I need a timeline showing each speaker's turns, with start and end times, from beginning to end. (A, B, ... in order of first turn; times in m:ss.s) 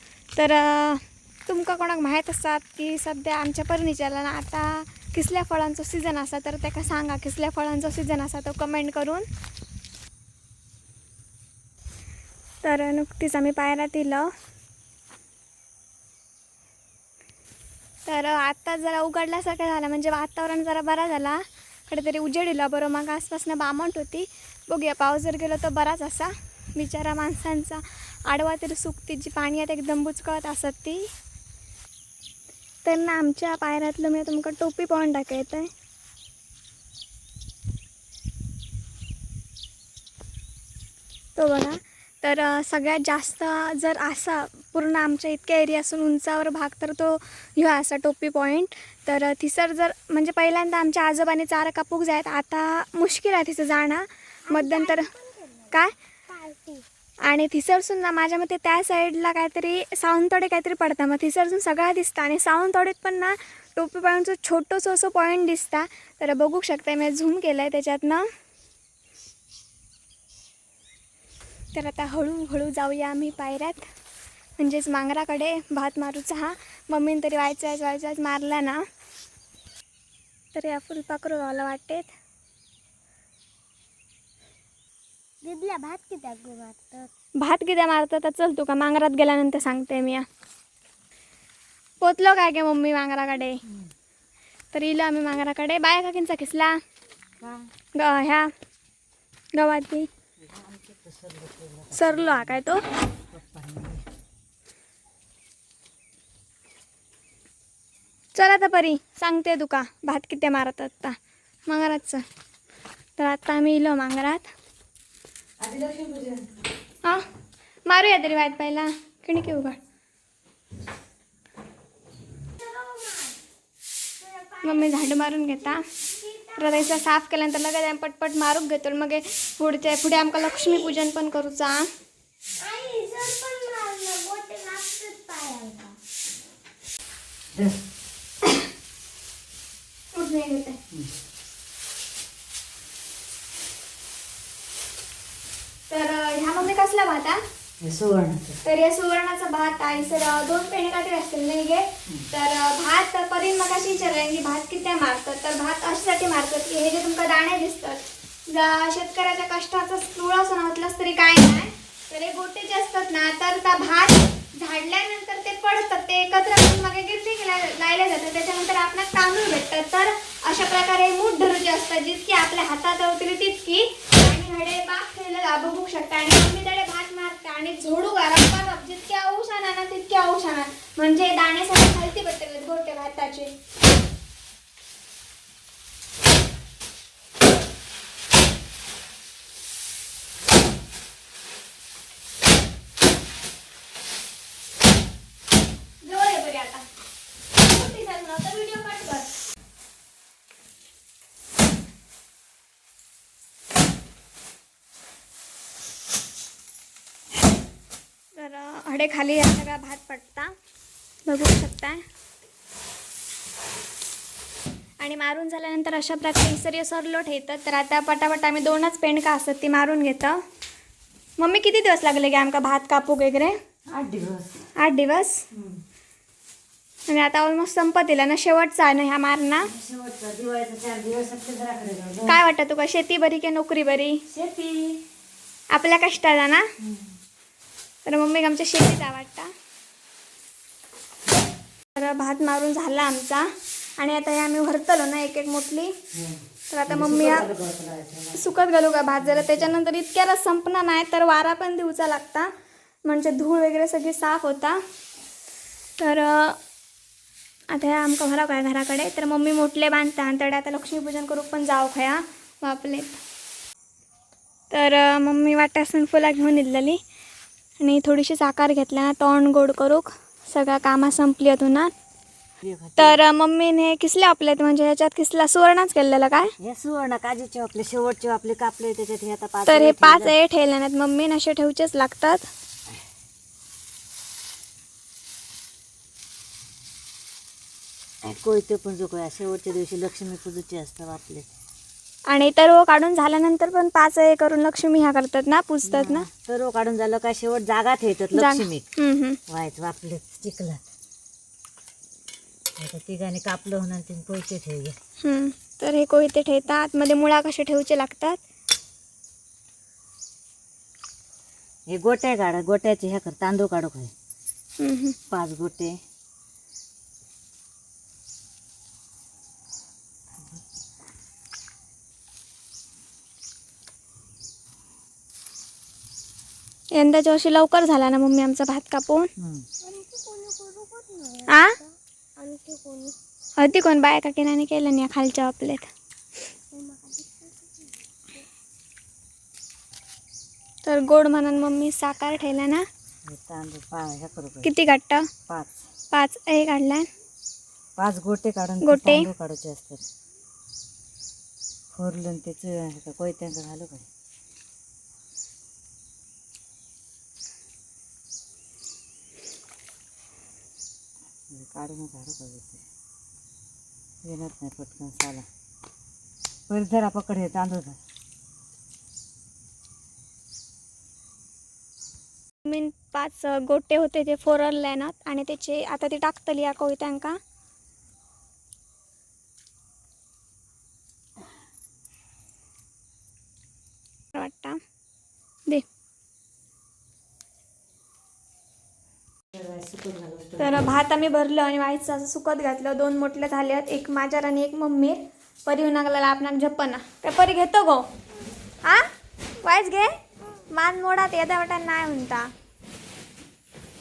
0:00.4-0:09.2 A
0:12.6-0:14.3 A
0:18.0-0:31.1 A
0:32.8-0:35.7 A
0:41.4-0:55.1 A
0:54.5-0:55.7 B
0:56.3-0:56.8 B
0:57.2-1:08.3 A
1:11.7-1:13.9 A
1:14.6-1:18.8 A
1:20.5-1:22.1 A
1:25.4-1:27.1 B
1:27.4-1:30.2 A
1:32.0-1:33.6 A
1:34.7-1:36.8 A
1:37.4-1:37.7 C
1:38.0-1:38.5 A
1:39.6-1:40.1 A
1:40.4-1:42.6 C
1:41.9-1:42.8 A
1:43.3-1:44.0 C
1:48.3-1:51.2 A
1:51.7-1:52.2 A
1:53.2-1:54.5 A
1:55.6-1:56.5 C
1:57.8-1:59.8 A
2:02.6-2:03.4 B
2:04.2-2:06.8 B
2:04.6-2:05.8 A
2:06.5-2:11.9 A
2:12.6-2:16.0 B
2:17.5-2:17.8 C
2:20.1-2:20.8 A
2:25.9-2:27.4 A
2:27.8-2:28.6 C
2:28.6-3:03.5 A
3:16.0-3:16.8 A
3:17.6-3:19.3 A
3:28.4-3:30.5 A
3:31.3-3:32.0 A
3:35.0-3:40.4 A
3:41.4-3:43.5 A
3:43.9-3:44.7 C
3:44.8-3:45.4 A
3:45.5-3:45.8 C
3:47.1-3:49.7 A
3:49.6-3:52.4 C
3:52.3-3:54.2 A
3:54.3-3:55.0 C
3:55.7-3:56.6 A
3:58.0-3:59.5 A
4:02.0-4:06.0 A
4:06.1-4:08.5 C
4:06.7-4:07.5 A
4:08.3-4:12.5 A
4:09.2-4:09.7 C
4:13.0-4:14.8 A
4:16.0-4:16.6 A
4:17.7-4:23.2 A
4:24.7-4:27.0 A
4:27.8-4:31.9 A
4:32.6-4:33.2 C
4:33.0-4:36.5 A
4:36.6-4:40.4 C
4:39.6-4:42.5 A
4:48.2-4:51.5 C
4:52.3-4:56.2 A
4:55.8-4:58.8 C
4:58.3-4:59.4 A
4:59.5-5:00.8 C
5:02.8-5:05.0 C
5:05.2-5:08.4 A
5:11.9-5:14.1 C
5:14.8-5:15.2 A
5:15.3-5:16.0 C
5:27.0-5:29.3 A
5:29.4-5:29.7 C
5:29.8-5:33.1 B
5:31.5-5:31.7 A
5:33.6-5:35.9 A
5:36.7-5:38.4 B
5:40.8-5:42.8 A
5:43.2-5:44.7 C
5:44.6-5:45.3 A
5:45.5-5:45.8 C
5:46.1-5:47.1 A
5:48.0-5:50.0 C
5:48.8-5:49.3 A
5:51.9-5:54.0 C
6:01.5-6:02.8 C
6:04.2-6:05.4 C
6:06.7-6:08.0 C
6:12.6-6:17.4 A
6:24.3-6:24.8 A
6:29.5-6:31.0 C
6:30.6-6:38.1 A
6:38.8-6:39.1 A
6:39.6-6:40.1 A
6:40.7-6:42.5 A